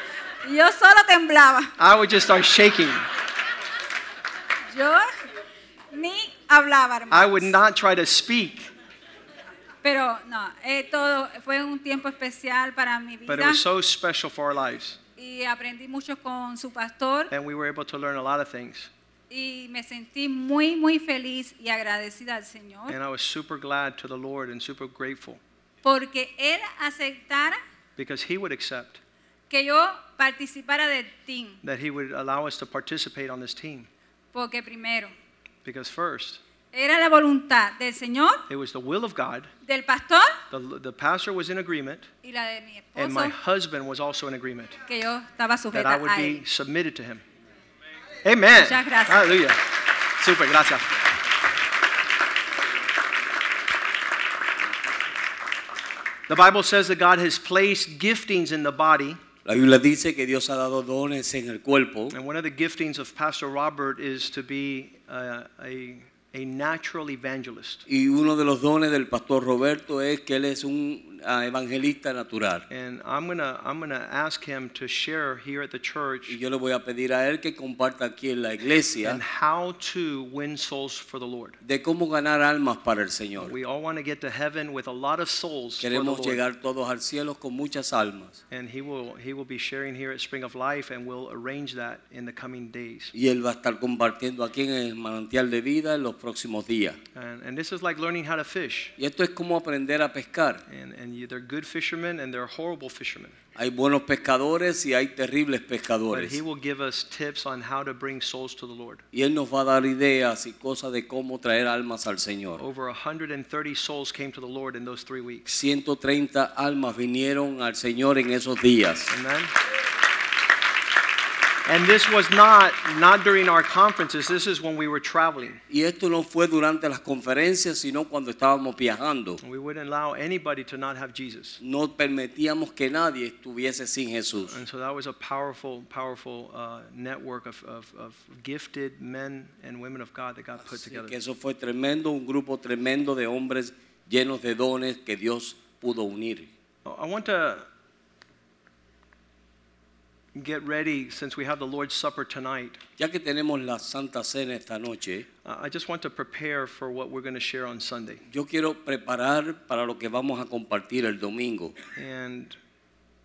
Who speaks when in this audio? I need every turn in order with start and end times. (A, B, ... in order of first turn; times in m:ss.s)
0:00.4-0:01.7 A
0:01.8-0:03.1 B
0:04.7-0:05.1 A
0:05.9-0:07.6 A
0:07.1-0:08.7 B
0:09.8-0:13.6 A
0:13.3-0:15.0 B
0:15.2-0:17.3 A
0:17.3-0:18.9 B
0:19.3-0:23.0 A
0:22.9-0:25.4 B
0:25.8-0:27.6 A
0:28.0-0:29.0 B
0:29.5-0:31.6 A
0:31.6-0:33.9 B
0:34.3-0:35.1 A
0:35.6-0:36.4 B
0:36.7-0:38.4 A
0:38.5-0:39.5 B
0:39.7-0:40.4 A
0:40.5-0:42.1 B
0:42.2-0:43.3 A
0:43.0-0:44.8 B
0:44.9-0:46.4 A
0:45.7-0:47.2 B
0:48.2-0:50.9 B
0:48.6-0:49.5 A
0:56.3-0:59.2 B
0:59.5-1:02.1 C
1:02.1-1:07.8 B
1:07.9-1:12.6 C
1:12.7-1:16.4 B
1:16.3-1:19.2 C
1:19.0-1:21.6 B
1:21.6-1:23.5 C
1:23.4-1:26.4 B
1:25.8-1:28.4 C
1:28.5-1:33.1 B
1:33.1-1:37.0 C
1:37.2-1:38.9 B
1:39.0-1:40.6 C
1:40.7-1:43.4 B
1:43.6-1:46.4 C
1:46.1-1:49.0 B
1:49.1-1:52.6 C
1:52.6-1:55.5 B
1:55.5-1:59.1 C
1:59.1-1:59.5 B
2:01.7-2:05.6 B
2:05.7-2:09.4 C
2:09.4-2:11.6 B
2:11.6-2:14.6 C
2:14.5-2:21.2 B
2:20.7-2:26.5 C
2:26.8-2:27.7 B
2:30.4-2:32.8 B
2:33.0-2:35.3 C
2:35.4-2:38.2 B
2:38.3-2:41.8 C
2:42.0-2:42.6 B